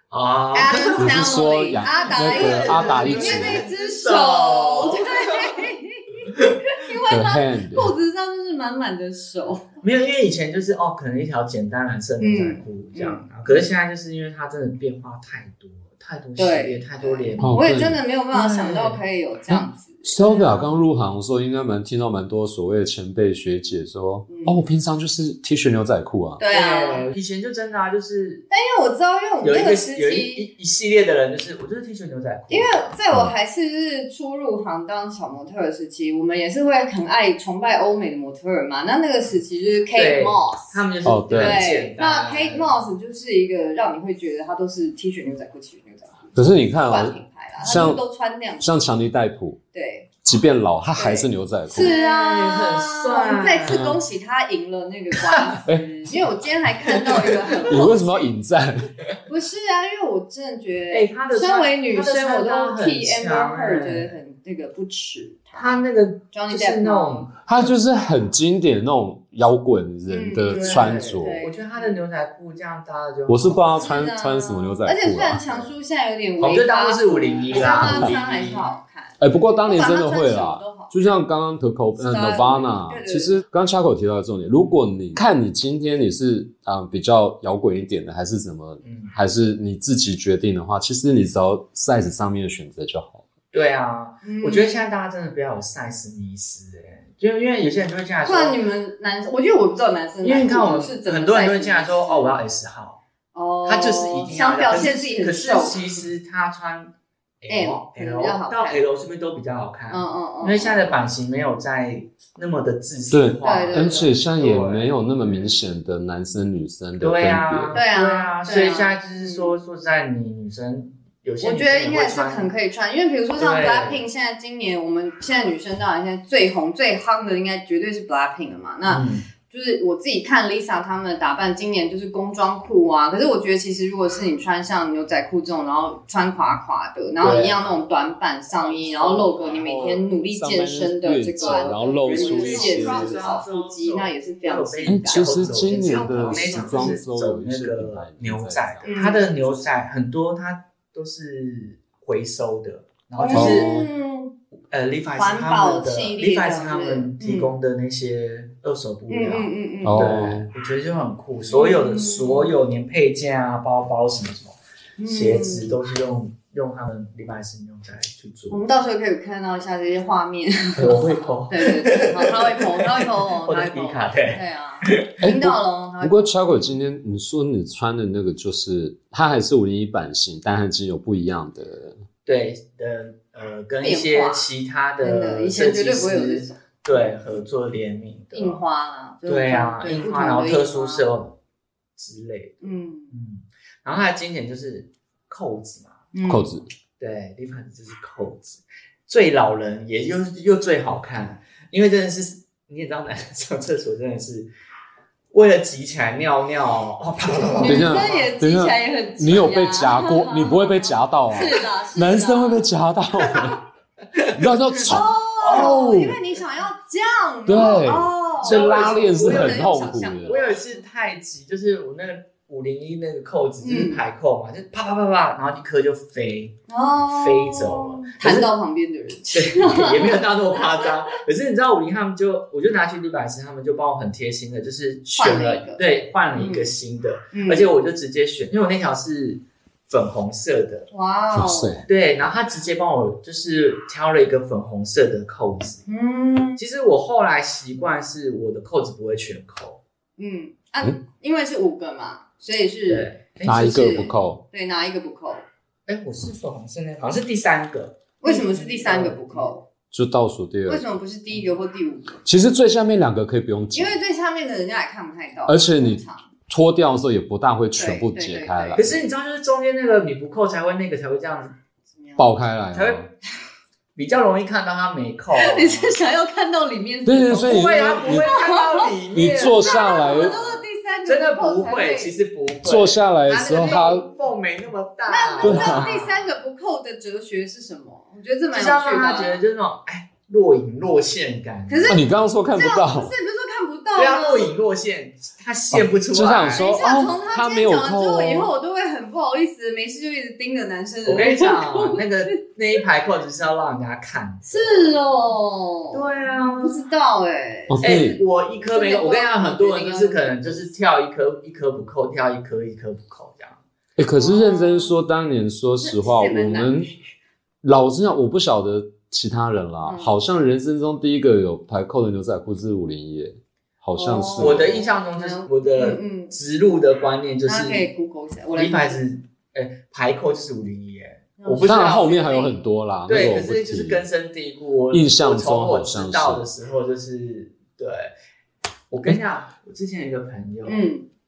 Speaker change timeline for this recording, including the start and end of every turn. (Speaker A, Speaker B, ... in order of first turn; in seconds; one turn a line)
Speaker A: 0.1-1.2
Speaker B: 0.5-9.7
Speaker C: 1.0-3.6
Speaker A: 2.0-5.6
Speaker C: 7.1-7.9
Speaker A: 9.8-17.6
Speaker B: 12.2-13.2
Speaker B: 16.4-20.6
Speaker C: 17.4-18.0
Speaker A: 18.3-19.0
Speaker C: 19.5-26.4
Speaker B: 24.3-24.6
Speaker B: 26.4-27.1
Speaker A: 26.5-28.4
Speaker B: 28.5-30.5
Speaker A: 29.4-32.9
Speaker B: 32.5-48.9
Speaker A: 39.9-42.7
Speaker C: 41.0-41.6
Speaker C: 46.3-48.0
Speaker C: 48.6-49.6
Speaker B: 49.7-50.1
Speaker C: 50.2-51.9
Speaker B: 50.9-58.3
Speaker A: 51.7-53.9
Speaker C: 53.7-54.0
Speaker A: 57.0-57.6
Speaker C: 57.7-58.9
Speaker B: 59.3-67.3
Speaker A: 60.9-64.2
Speaker A: 65.5-67.7
Speaker C: 67.5-71.4
Speaker B: 70.1-72.0
Speaker A: 70.4-73.7
Speaker C: 73.3-75.7
Speaker B: 73.7-81.2
Speaker A: 76.4-78.7
Speaker C: 77.5-78.2
Speaker C: 79.2-93.2
Speaker B: 82.0-83.4
Speaker A: 88.8-89.1
Speaker A: 93.5-98.6
Speaker B: 94.2-94.8
Speaker B: 98.2-102.4
Speaker A: 100.2-103.0
Speaker B: 103.3-106.0
Speaker A: 103.6-114.9
Speaker B: 107.5-108.8
Speaker B: 109.9-110.9
Speaker C: 113.1-117.8
Speaker B: 113.4-114.1
Speaker A: 117.0-122.5
Speaker B: 117.7-119.5
Speaker B: 121.4-147.0
Speaker A: 123.3-124.0
Speaker A: 128.9-129.3
Speaker A: 137.2-137.7
Speaker A: 138.7-140.0
Speaker C: 138.9-143.3
Speaker A: 141.4-153.8
Speaker C: 144.9-149.0
Speaker B: 148.8-149.6
Speaker B: 153.2-154.3
Speaker C: 153.3-153.8
Speaker A: 154.7-168.6
Speaker B: 155.2-157.5
Speaker B: 159.1-160.0
Speaker C: 159.8-160.5
Speaker B: 161.5-162.5
Speaker B: 165.0-165.8
Speaker B: 168.5-176.4
Speaker A: 170.8-175.2
Speaker C: 175.2-182.0
Speaker A: 182.2-188.6
Speaker B: 183.8-184.5
Speaker B: 185.0-187.1
Speaker B: 188.3-191.0
Speaker A: 189.2-191.4
Speaker A: 192.0-196.1
Speaker B: 192.6-193.1
Speaker B: 196.1-196.5
Speaker C: 196.2-196.7
Speaker A: 197.0-204.5
Speaker A: 205.3-208.2
Speaker B: 207.6-212.7
Speaker C: 207.6-213.6
Speaker A: 214.1-216.0
Speaker C: 214.3-216.2
Speaker B: 214.9-220.8
Speaker C: 217.4-220.4
Speaker A: 218.4-228.5
Speaker B: 223.6-224.0
Speaker B: 226.7-230.9
Speaker A: 229.3-240.9
Speaker B: 235.2-235.8
Speaker B: 236.3-236.7
Speaker B: 237.3-237.7
Speaker B: 240.9-241.8
Speaker C: 241.3-241.8
Speaker A: 241.9-245.8
Speaker B: 245.9-246.6
Speaker A: 246.6-249.8
Speaker B: 250.2-255.4
Speaker A: 252.9-254.0
Speaker C: 253.4-254.4
Speaker A: 255.9-259.5
Speaker B: 258.2-259.6
Speaker C: 259.9-260.8
Speaker B: 260.7-262.2
Speaker C: 262.2-264.0
Speaker B: 263.7-266.3
Speaker C: 265.5-269.0
Speaker B: 267.8-268.9
Speaker A: 268.7-271.5
Speaker B: 272.0-272.3
Speaker C: 272.2-273.1
Speaker A: 272.7-273.1
Speaker A: 273.9-275.9
Speaker B: 275.3-278.9
Speaker C: 277.0-278.4
Speaker A: 277.4-286.1
Speaker C: 279.1-280.4
Speaker B: 279.5-282.1
Speaker C: 282.6-284.1
Speaker B: 283.4-284.0
Speaker B: 285.1-289.4
Speaker C: 285.4-286.1
Speaker A: 288.5-292.0
Speaker B: 291.7-294.5
Speaker C: 291.9-293.1
Speaker A: 293.9-296.8
Speaker C: 295.7-298.5
Speaker B: 296.5-302.3
Speaker A: 301.1-305.0
Speaker B: 304.5-308.0
Speaker A: 305.9-306.8
Speaker C: 307.7-308.2
Speaker A: 307.8-313.6
Speaker B: 308.7-310.7
Speaker C: 314.0-316.9
Speaker B: 314.2-314.9
Speaker B: 315.8-316.9
Speaker C: 317.6-324.7
Speaker B: 319.8-320.1
Speaker B: 323.9-326.3
Speaker A: 324.4-327.9
Speaker B: 327.4-329.0
Speaker A: 328.6-332.2
Speaker B: 331.4-332.6
Speaker C: 331.6-334.0
Speaker A: 333.1-338.1
Speaker C: 334.9-336.5
Speaker A: 338.9-340.8
Speaker B: 340.6-341.1